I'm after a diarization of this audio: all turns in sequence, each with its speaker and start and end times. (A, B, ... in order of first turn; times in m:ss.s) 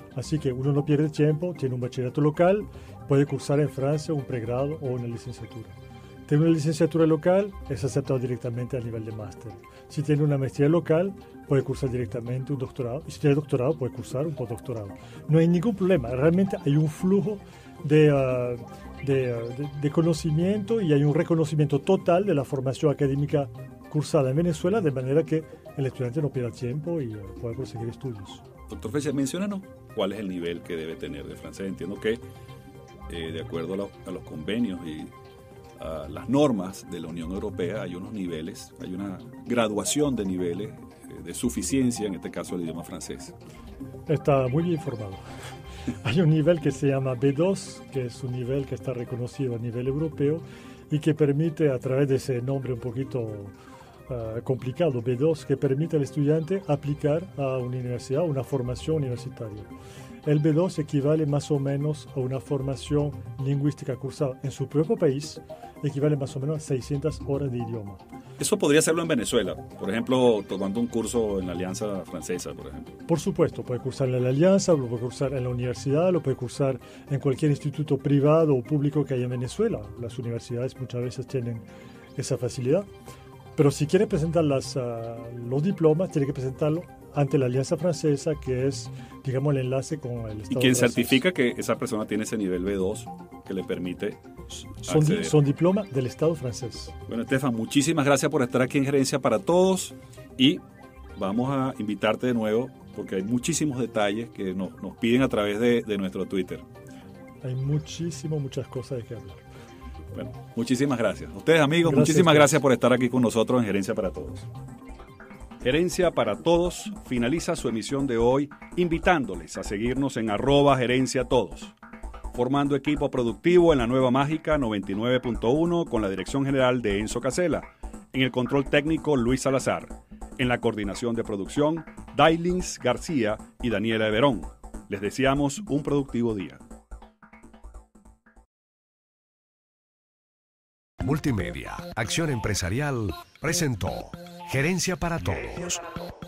0:00.1-0:28.4 A
0:28.7-0:32.2 B
0:33.1-0:35.1 B
0:35.8-0:43.3 B
0:44.1-0:45.2 A
0:46.0-0:53.5 A
0:54.1-0:59.7 A
1:00.2-1:08.0 A
1:08.4-1:12.9 B
1:13.1-1:22.9 A
1:23.6-1:31.2 A
1:30.5-1:34.2 B
1:34.8-1:36.9 A
1:34.8-1:35.4 B
1:37.1-1:40.6 B
1:41.2-1:46.6 B
1:47.4-1:49.4 A
1:50.1-1:54.4 B
1:51.8-1:52.6 A
1:55.6-2:01.7 B
2:02.3-2:16.6 B
2:21.0-2:25.9 C